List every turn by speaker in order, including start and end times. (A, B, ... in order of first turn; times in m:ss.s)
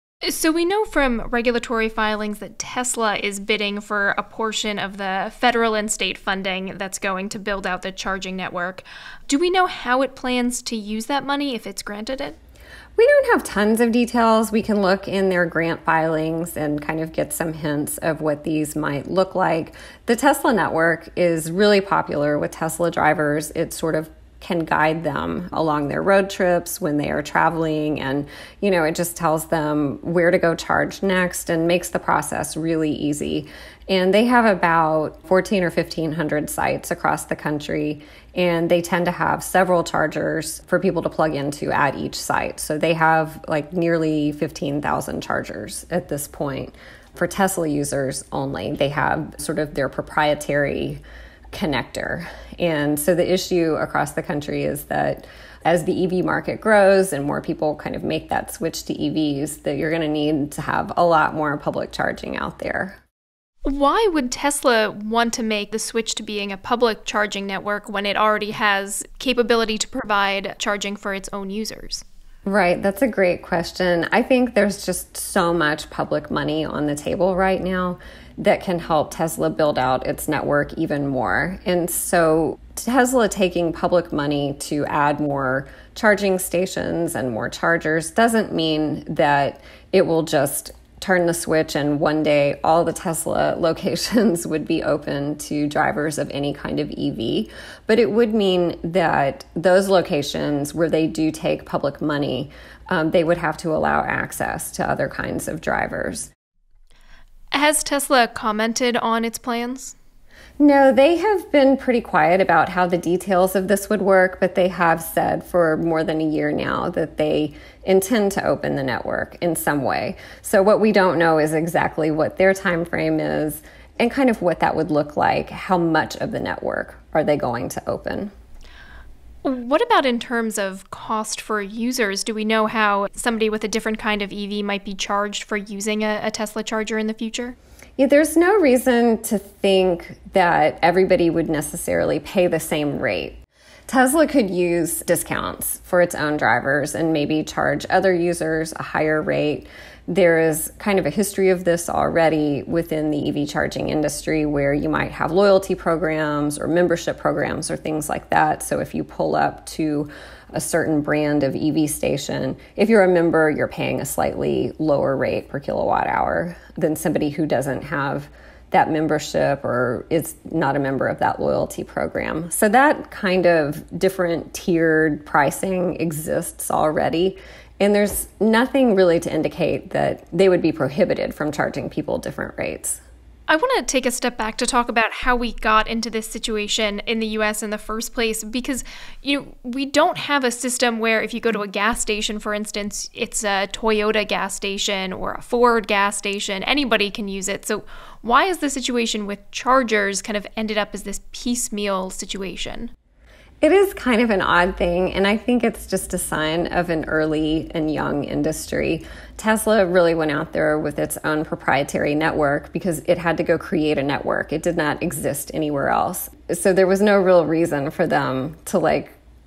0:00.2-0:12.4 A
0:13.0-1:03.0 B
1:03.6-1:12.0 A
1:12.4-1:46.3 B
1:47.5-1:50.0 A
1:50.6-2:08.3 B
2:09.4-2:17.5 A
2:18.0-3:03.0 B
3:03.5-3:22.9 A
3:23.6-3:39.2 B